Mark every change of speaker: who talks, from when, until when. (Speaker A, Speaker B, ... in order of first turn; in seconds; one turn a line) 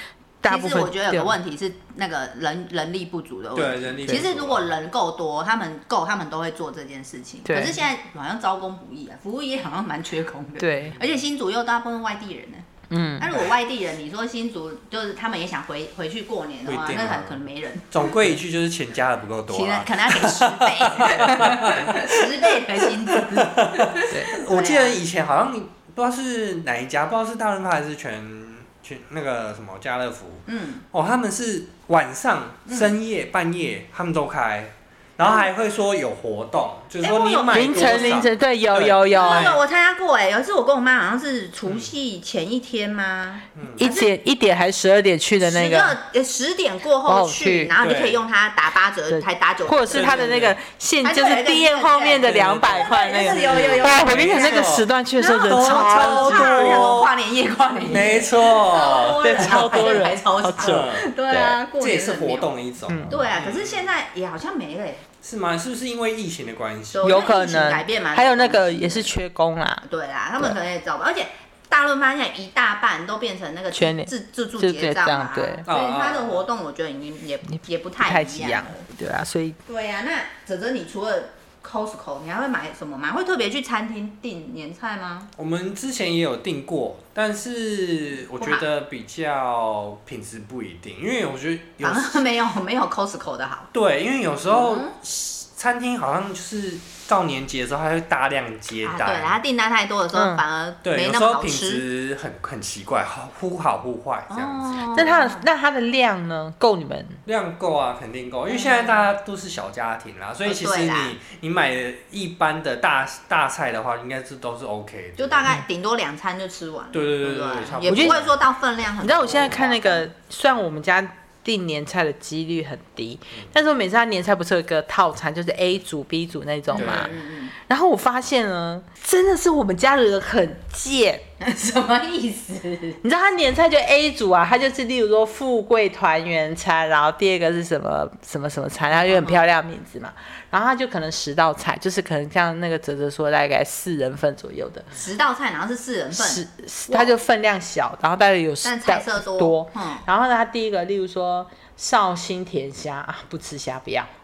Speaker A: 0.4-1.3
Speaker B: 0.5-12.6
Speaker C: 3.5-4.7
Speaker A: 7.5-7.8
Speaker A: 10.6-10.9
Speaker A: 12.9-13.3
Speaker B: 13.2-18.1
Speaker C: 16.6-17.4
Speaker C: 17.9-39.6
Speaker B: 19.5-25.0
Speaker A: 21.1-21.7
Speaker B: 30.5-30.8
Speaker B: 32.6-32.9
Speaker B: 37.0-38.3
Speaker A: 37.5-39.6
Speaker B: 39.1-44.1
Speaker C: 43.5-43.8
Speaker A: 43.8-46.0
Speaker B: 45.4-50.4
Speaker A: 47.0-47.7
Speaker C: 47.8-48.2
Speaker A: 49.1-57.0
Speaker C: 49.9-50.6
Speaker B: 51.0-62.5
Speaker C: 52.2-57.1
Speaker C: 57.9-60.0
Speaker A: 59.2-61.5
Speaker C: 60.6-63.9
Speaker A: 62.9-63.2
Speaker B: 63.1-65.0
Speaker C: 65.2-67.1
Speaker B: 66.9-69.1
Speaker A: 67.0-69.8
Speaker B: 69.8-78.8
Speaker A: 73.7-75.6
Speaker C: 75.7-76.4
Speaker A: 78.0-79.6
Speaker B: 79.7-85.3
Speaker C: 85.4-92.2
Speaker B: 91.8-93.7
Speaker C: 93.7-99.4
Speaker B: 94.5-95.0
Speaker B: 98.8-101.8
Speaker A: 100.1-100.4
Speaker C: 100.8-105.0
Speaker B: 104.3-105.5
Speaker A: 104.9-107.2
Speaker C: 107.2-115.5
Speaker B: 108.5-109.1
Speaker B: 110.4-111.2
Speaker B: 115.2-120.0
Speaker C: 116.9-118.3
Speaker A: 117.8-118.2
Speaker A: 119.0-131.2
Speaker B: 126.7-127.5
Speaker C: 126.8-127.2
Speaker B: 131.4-133.0
Speaker A: 133.0-144.9
Speaker B: 139.0-139.4
Speaker B: 144.9-147.1
Speaker A: 146.1-154.1
Speaker B: 148.6-150.1